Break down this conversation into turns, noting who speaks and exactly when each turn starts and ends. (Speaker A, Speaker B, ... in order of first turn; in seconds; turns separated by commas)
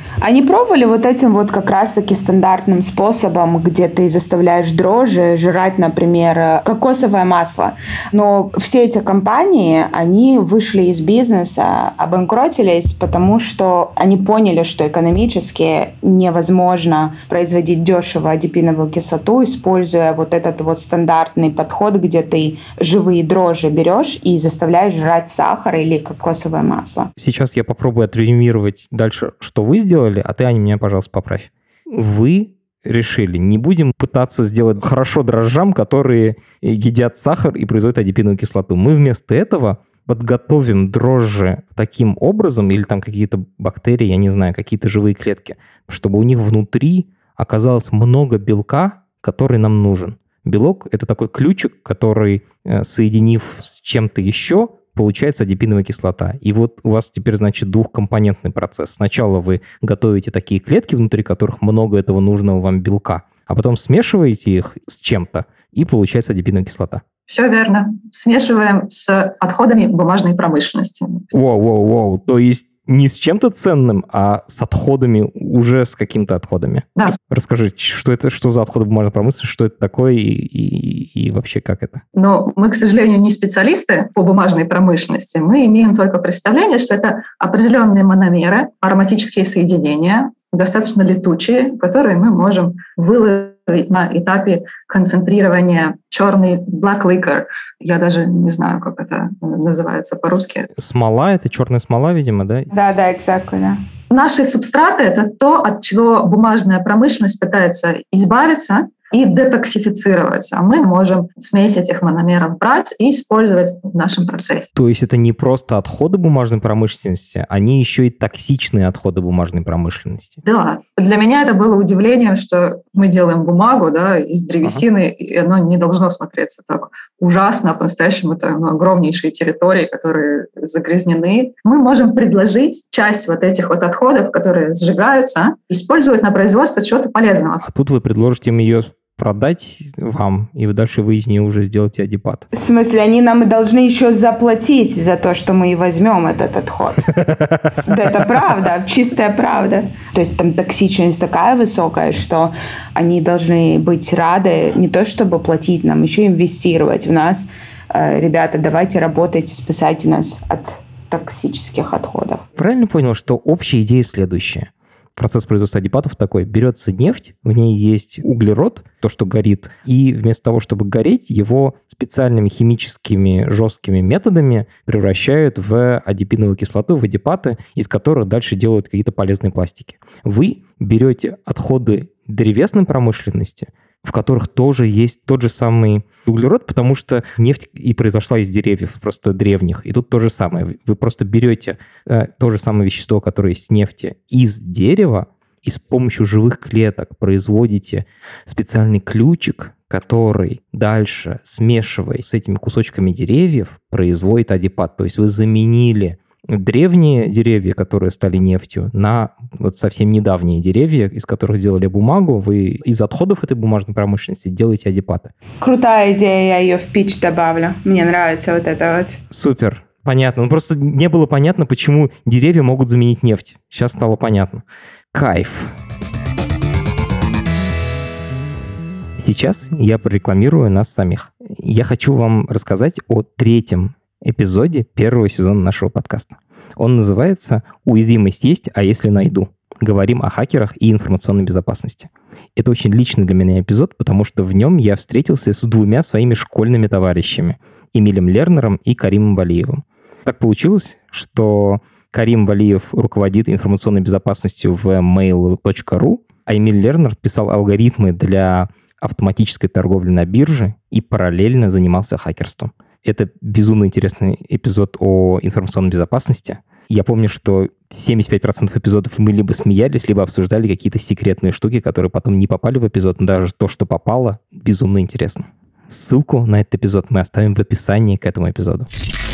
Speaker A: 0.2-27.1, Speaker B: 27.2-67.0, Speaker C: 67.3-71.3, Speaker B: 71.3-82.0, Speaker C: 82.1-100.7, Speaker B: 100.8-102.7, Speaker A: 102.7-103.8, Speaker C: 104.1-114.7, Speaker B: 114.8-120.4, Speaker C: 120.4-137.6, Speaker B: 137.6-142.5, Speaker A: 142.5-147.1, Speaker B: 147.2-147.8, Speaker A: 147.7-162.4, Speaker B: 162.6-215.3, Speaker A: 215.6-219.2, Speaker B: 219.3-225.7, Speaker B: 229.2-278.9